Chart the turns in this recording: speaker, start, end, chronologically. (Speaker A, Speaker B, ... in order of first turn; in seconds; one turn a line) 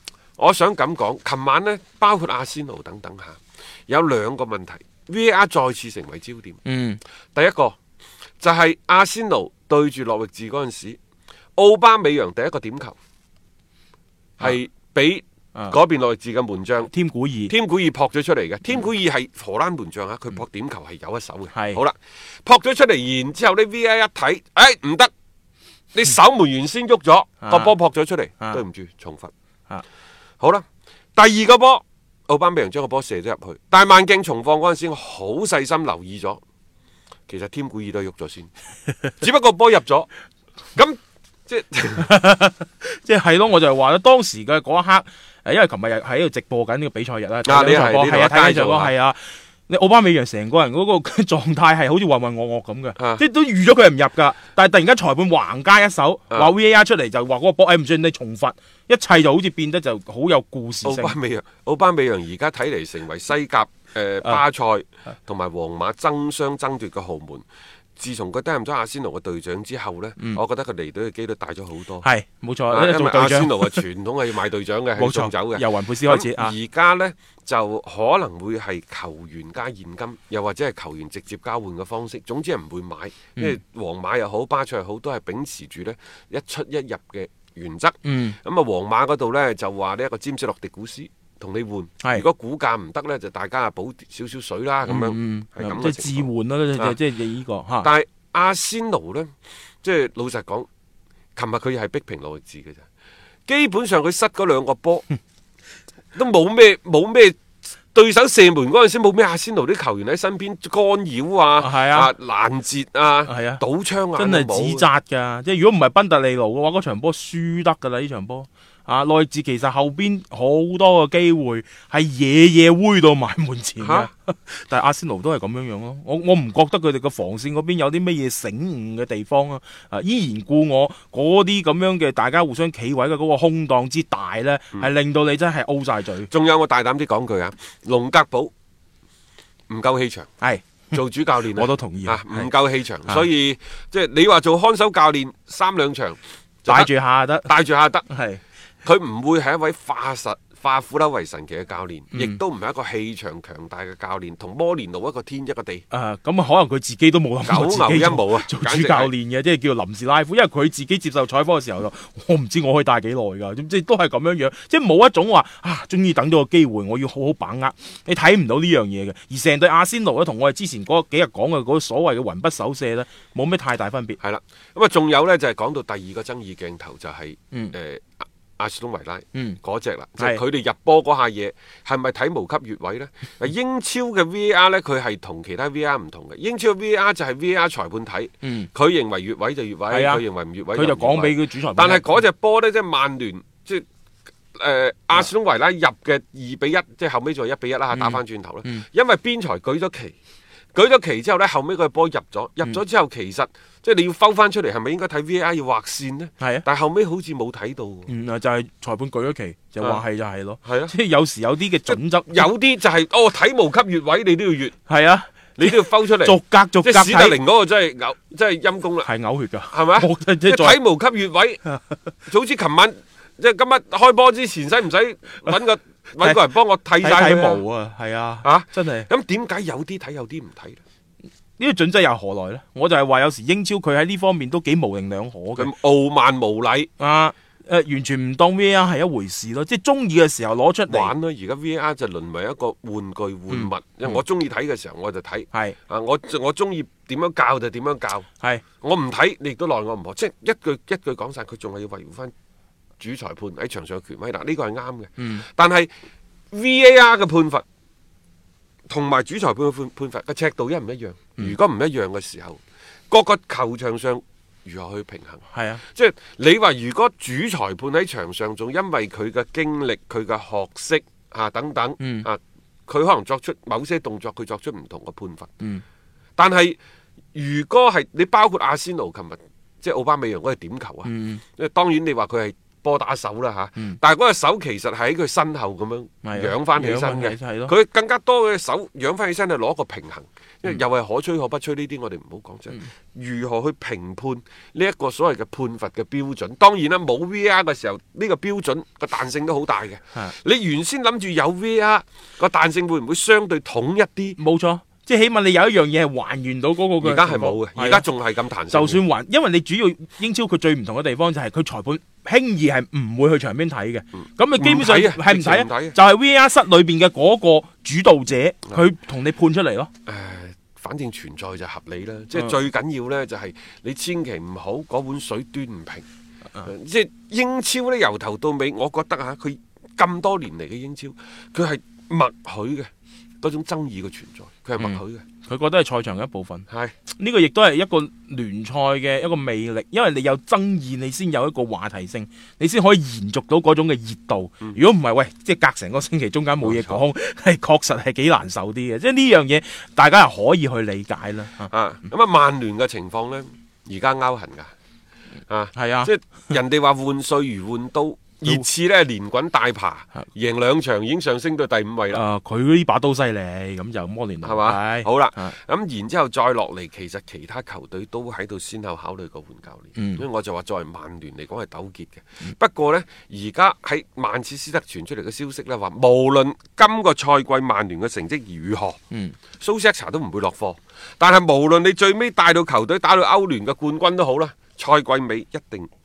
Speaker A: 0.4-6.6
Speaker B: 6.6-7.0
Speaker A: 7.3-7.8
Speaker A: 8.4-11.0
Speaker A: 11.6-12.9
Speaker A: 14.4-16.9
Speaker B: 16.9-17.5
Speaker A: 17.5-25.1
Speaker B: 21.5-21.8
Speaker A: 25.9-29.3
Speaker B: 27.4-27.7
Speaker A: 31.1-36.4
Speaker A: 37.3-38.5
Speaker A: 39.2-40.1
Speaker A: 40.8-42.1
Speaker B: 42.0-61.1
Speaker A: 47.5-48.9
Speaker A: 53.0-53.2
Speaker A: 60.8-67.4
Speaker A: 68.0-72.0
Speaker B: 72.0-73.8
Speaker A: 72.7-96.3
Speaker B: 75.0-76.5
Speaker B: 88.0-88.4
Speaker B: 94.9-97.9
Speaker A: 97.8-99.3
Speaker A: 99.8-100.7
Speaker A: 101.3-102.8
Speaker A: 103.5-105.0
Speaker A: 106.1-107.4
Speaker A: 107.9-114.8
Speaker B: 111.6-112.1
Speaker B: 113.2-113.6
Speaker B: 114.2-136.3
Speaker A: 123.8-124.1
Speaker A: 136.3-138.5
Speaker A: 139.7-140.3
Speaker B: 140.4-141.0
Speaker A: 140.9-146.9
Speaker B: 141.5-142.5
Speaker B: 146.7-147.5
Speaker A: 147.4-148.1
Speaker B: 148.1-148.4
Speaker A: 148.8-155.8
Speaker B: 152.1-152.4
Speaker B: 155.9-174.2
Speaker A: 157.4-159.1
Speaker A: 174.2-193.8
Speaker B: 179.3-179.6
Speaker B: 188.4-188.7
Speaker B: 189.9-192.1
Speaker A: 194.6-200.1
Speaker B: 197.9-198.8
Speaker A: 200.7-208.1
Speaker B: 206.4-206.6
Speaker B: 208.1-212.5
Speaker A: 210.6-210.9
Speaker A: 211.9-214.7
Speaker B: 214.9-217.4
Speaker A: 215.6-219.1
Speaker B: 219.0-220.8
Speaker A: 219.7-221.6
Speaker A: 222.2-227.6
Speaker B: 227.0-229.1
Speaker A: 228.4-230.8
Speaker B: 231.6-235.7
Speaker A: 235.6-236.9
Speaker B: 237.0-241.1
Speaker A: 240.9-248.2
Speaker B: 243.5-244.2
Speaker B: 245.5-245.8
Speaker A: 248.8-252.3
Speaker A: 253.0-255.9
Speaker B: 255.2-255.4
Speaker A: 256.5-257.6
Speaker A: 258.9-275.5
Speaker B: 265.5-265.8
Speaker B: 272.0-272.3
Speaker A: 276.4-276.8
Speaker A: 277.3-304.4
Speaker B: 281.0-281.4
Speaker B: 286.2-287.7
Speaker B: 304.4-308.0
Speaker A: 307.0-309.0
Speaker B: 308.7-319.9
Speaker A: 314.6-315.9
Speaker A: 320.1-326.0
Speaker A: 326.6-332.9
Speaker A: 333.4-335.2
Speaker B: 334.8-351.7
Speaker A: 336.7-336.9
Speaker A: 346.6-347.1
Speaker A: 351.7-354.7
Speaker A: 355.5-362.2
Speaker B: 355.7-356.1
Speaker B: 362.1-365.5
Speaker A: 364.4-379.0
Speaker B: 369.9-370.2
Speaker B: 379.1-379.4
Speaker A: 379.6-385.9